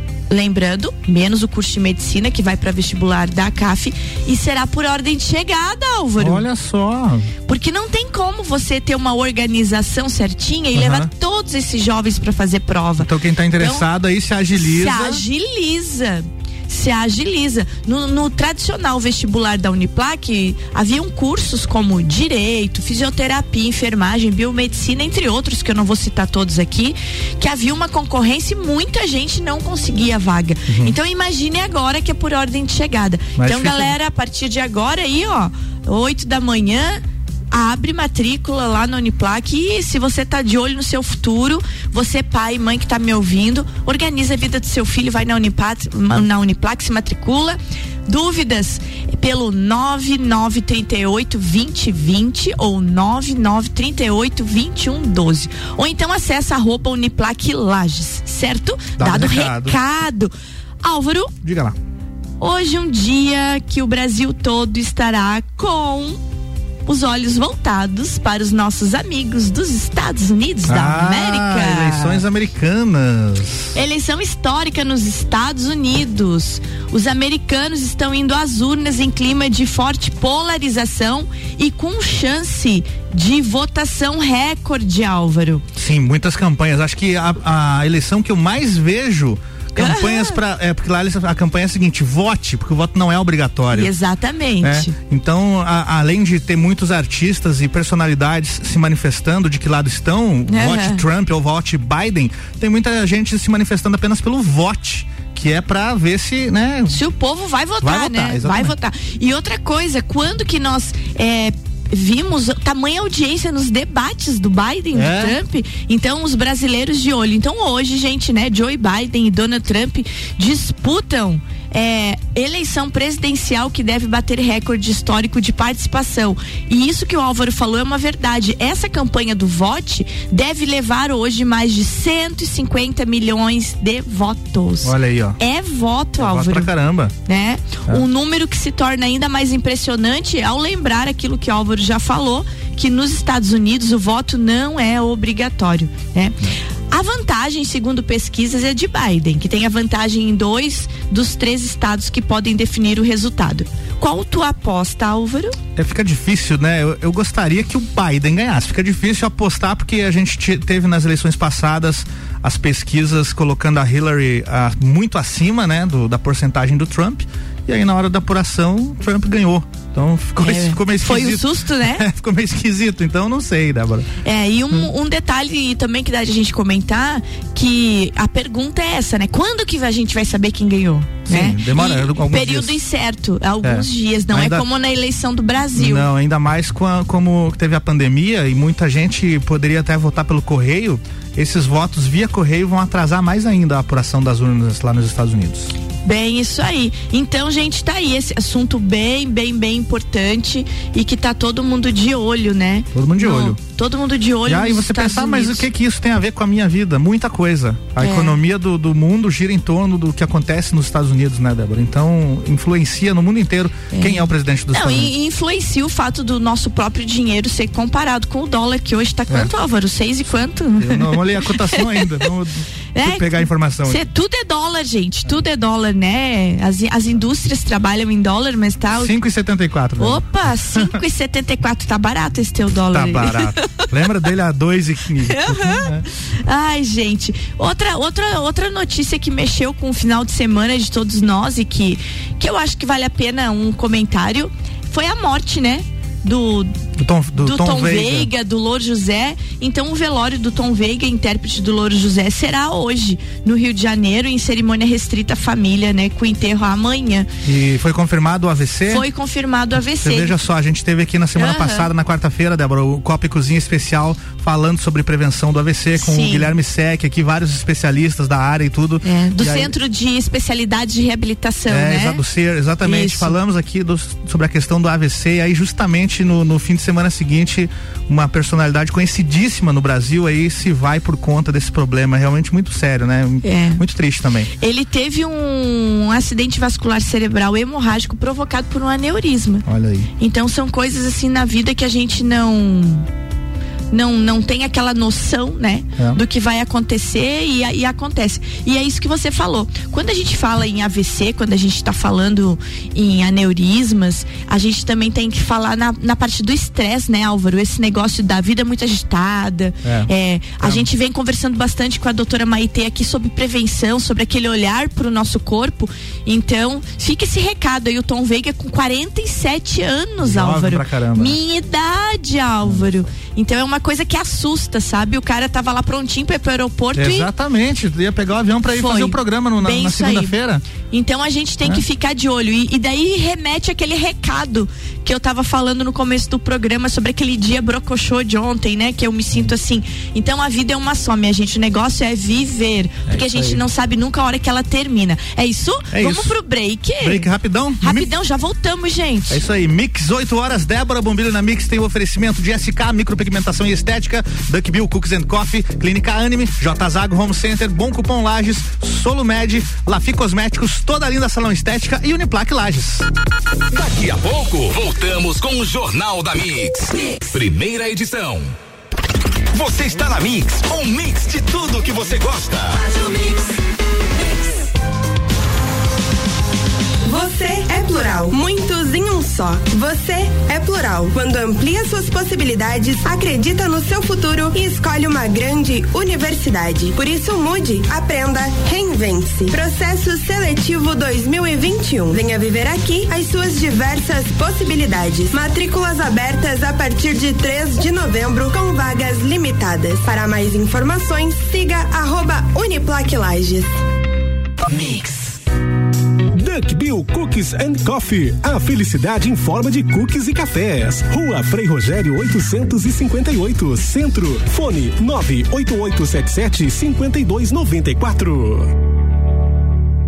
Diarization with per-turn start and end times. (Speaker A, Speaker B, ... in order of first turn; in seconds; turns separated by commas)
Speaker A: 0.3-6.5, Speaker B: 6.2-7.3, Speaker A: 7.5-13.9, Speaker B: 10.7-11.1, Speaker B: 13.0-15.2, Speaker A: 14.6-61.3, Speaker B: 30.7-30.9, Speaker B: 33.4-34.0, Speaker B: 59.0-59.8, Speaker B: 61.4-61.8, Speaker A: 62.4-66.2, Speaker A: 66.9-72.2, Speaker B: 70.7-73.7, Speaker A: 73.7-85.7, Speaker B: 85.8-93.9, Speaker A: 89.8-90.4, Speaker A: 93.7-94.9, Speaker B: 94.6-107.0, Speaker A: 100.5-101.0, Speaker A: 106.9-136.7, Speaker B: 107.8-108.7, Speaker B: 114.9-115.4, Speaker B: 134.8-135.4, Speaker B: 136.2-137.1, Speaker A: 137.2-146.4, Speaker A: 146.9-155.6, Speaker B: 155.8-174.1, Speaker A: 170.4-172.1, Speaker A: 174.2-186.1, Speaker B: 181.3-182.8, Speaker B: 183.6-184.7, Speaker B: 185.8-195.7, Speaker A: 196.0-205.7, Speaker B: 202.9-203.6, Speaker B: 204.5-215.1, Speaker A: 208.0-208.4, Speaker A: 213.9-222.1, Speaker B: 220.8-224.0, Speaker A: 222.9-229.1, Speaker B: 228.9-230.2, Speaker A: 230.0-233.8, Speaker B: 232.9-236.1, Speaker A: 235.3-235.9, Speaker A: 236.4-246.7, Speaker B: 247.0-248.3, Speaker A: 247.4-257.3, Speaker B: 257.4-259.1, Speaker A: 258.9-260.4, Speaker B: 260.0-269.7, Speaker A: 261.4-261.9, Speaker A: 266.0-266.5, Speaker A: 269.0-272.2, Speaker B: 271.7-284.5, Speaker A: 272.8-273.3, Speaker A: 283.4-283.8, Speaker A: 284.6-289.6, Speaker B: 289.7-290.1, Speaker A: 290.2-293.1, Speaker A: 293.9-327.3, Speaker B: 309.8-310.9, Speaker B: 320.2-321.4, Speaker B: 326.9-330.6, Speaker A: 328.7-347.3, Speaker B: 343.1-343.6, Speaker B: 345.9-346.3, Speaker B: 347.0-348.1, Speaker A: 347.8-349.4, Speaker B: 349.3-363.1, Speaker C: 363.7-368.5, Speaker C: 369.5-373.0, Speaker D: 377.0-403.8, Speaker E: 406.3-418.7